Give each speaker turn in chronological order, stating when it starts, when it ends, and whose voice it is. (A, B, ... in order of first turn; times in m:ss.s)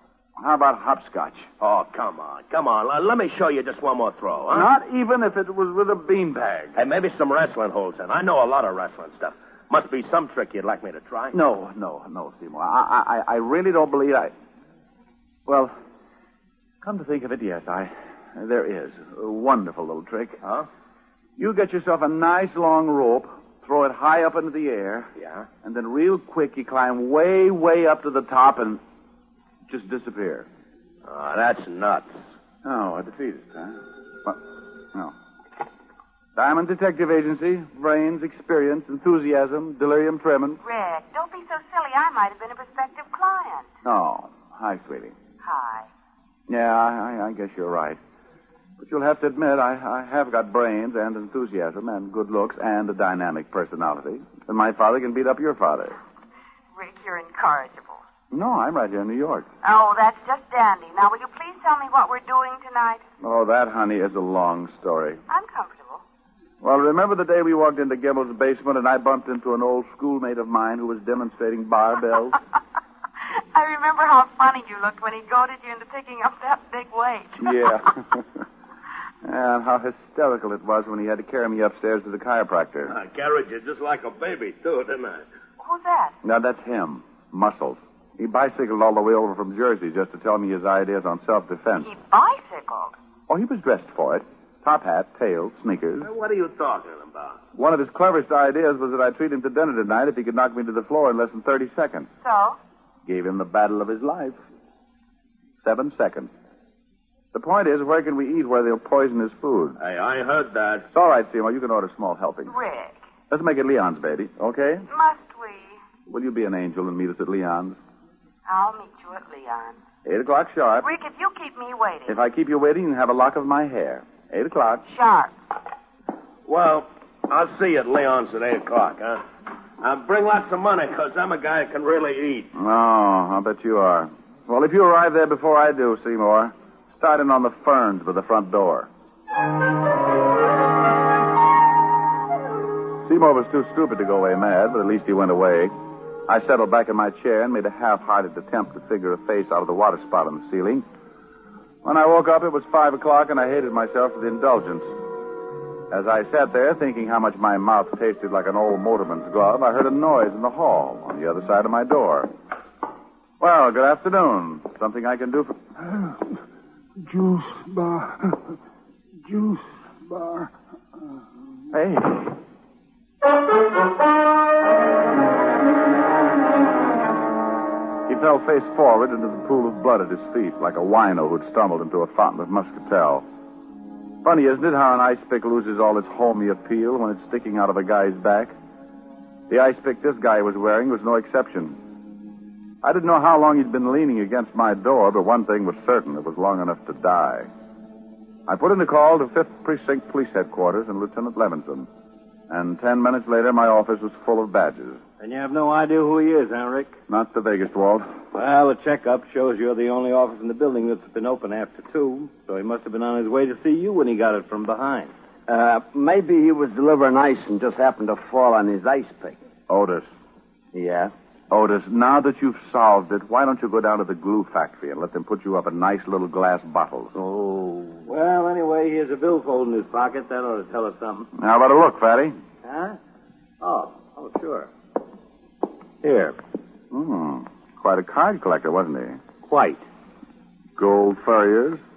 0:00.4-0:01.5 A
0:01.6-0:04.7 B
0:04.5-0:06.8 A
0:06.8-0:11.4 B
0:11.3-0:14.3 A
0:15.5-0:15.7 A
0:16.8-0:20.4 A
0:20.4-0:20.7 B
0:21.4-0:25.1 A
0:25.2-0:25.5 B
0:25.6-0:28.8 A
0:29.7-0:30.5 A
0:31.1-0:32.2 B
0:32.6-0:34.4 A
0:36.4-0:40.6 A
0:40.6-0:43.7 C
0:43.8-0:45.1 A
0:45.4-0:45.9 C
0:46.5-0:48.0 A
0:48.8-0:56.0 A
0:56.8-0:58.0 C
0:58.3-0:59.5 A
0:59.6-1:03.0 C
1:03.2-1:05.2 A
1:05.3-1:06.0 C
1:06.6-1:12.4 A
1:13.6-1:17.7 C
1:17.4-1:18.2 A
1:19.2-1:22.9 A
1:22.9-1:25.2 B
1:25.6-1:26.1 C
1:26.2-1:31.9 A
1:31.8-1:32.9 C
1:33.3-1:36.1 A
1:36.0-1:37.4 B
1:37.6-1:42.1 A
1:42.2-1:42.6 C
1:43.1-1:44.4 A
1:45.6-1:46.3 A
1:47.3-1:49.8 A
1:49.8-1:50.9 B
1:50.9-1:52.5 A
1:52.4-1:53.0 C
1:53.3-1:54.9 A
1:54.9-1:55.8 C
1:56.1-1:57.8 A
1:58.5-1:59.8 C
2:00.0-2:00.9 A
2:00.8-2:02.2 C
2:02.1-2:04.8 A
2:04.9-2:05.4 C
2:06.4-2:09.2 B
2:09.8-2:12.5 B
2:12.6-2:18.9 A
2:23.0-2:25.7 A
2:26.3-2:30.8 A
2:31.8-2:34.9 A
2:35.9-2:42.3 A
2:43.4-2:45.7 A
2:47.0-2:48.3 D
2:49.3-2:50.5 D
2:51.7-2:52.3 A
2:58.1-3:03.2 A
3:04.2-3:08.5 A
3:09.5-3:11.8 A
3:12.8-3:17.5 A
3:18.5-3:21.9 A
3:22.5-3:25.0 A
3:25.2-3:27.0 E
3:27.1-3:28.1 A
3:28.3-3:35.1 E
3:35.5-3:39.4 F
3:39.7-3:40.1 A
3:40.7-3:41.1 F
3:41.5-3:47.1 A
3:47.1-3:51.3 E
3:51.4-3:52.4 A
3:52.6-3:53.0 E
3:53.6-3:54.7 E
3:56.0-3:56.4 E
3:56.9-3:59.2 A
3:59.5-3:59.8 E
4:00.8-4:01.8 A